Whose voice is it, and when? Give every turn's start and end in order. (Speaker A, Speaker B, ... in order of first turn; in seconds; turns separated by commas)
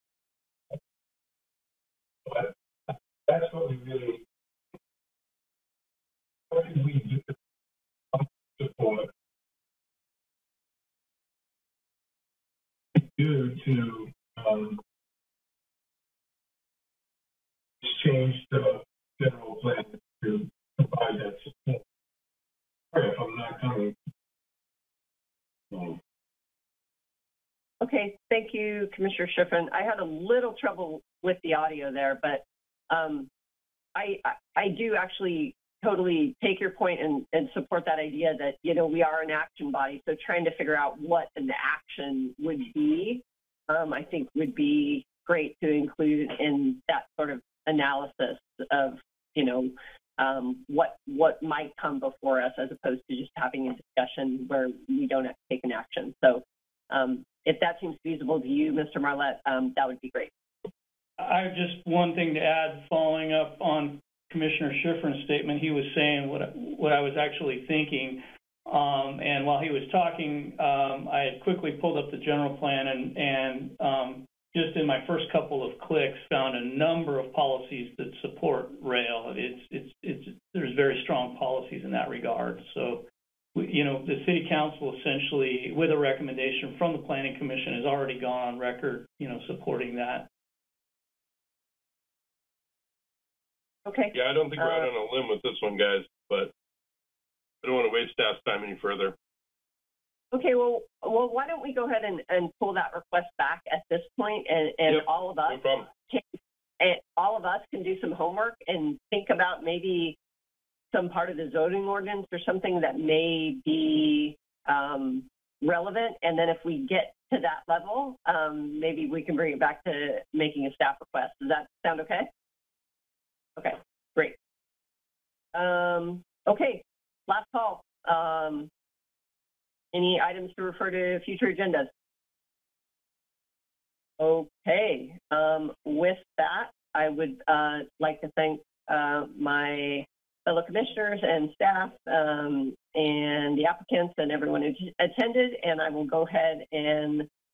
Speaker A: 2.2-4.2, Speaker A: 6.5-7.3, Speaker A: 8.1-9.1, Speaker A: 12.9-14.8, Speaker A: 17.8-21.8, Speaker A: 22.9-24.0, Speaker A: 25.7-26.0, Speaker B: 27.8-33.3, Speaker B: 34.0-60.3, Speaker C: 61.2-90.3, Speaker B: 93.9-94.9, Speaker D: 94.1-96.5, Speaker D: 97.6-99.2, Speaker B: 100.3-106.2, Speaker D: 104.9-105.9, Speaker B: 106.8-110.2, Speaker B: 110.9-122.3, Speaker B: 123.6-124.4, Speaker B: 125.5-128.7, Speaker B: 129.9-131.9, Speaker B: 134.2-147.3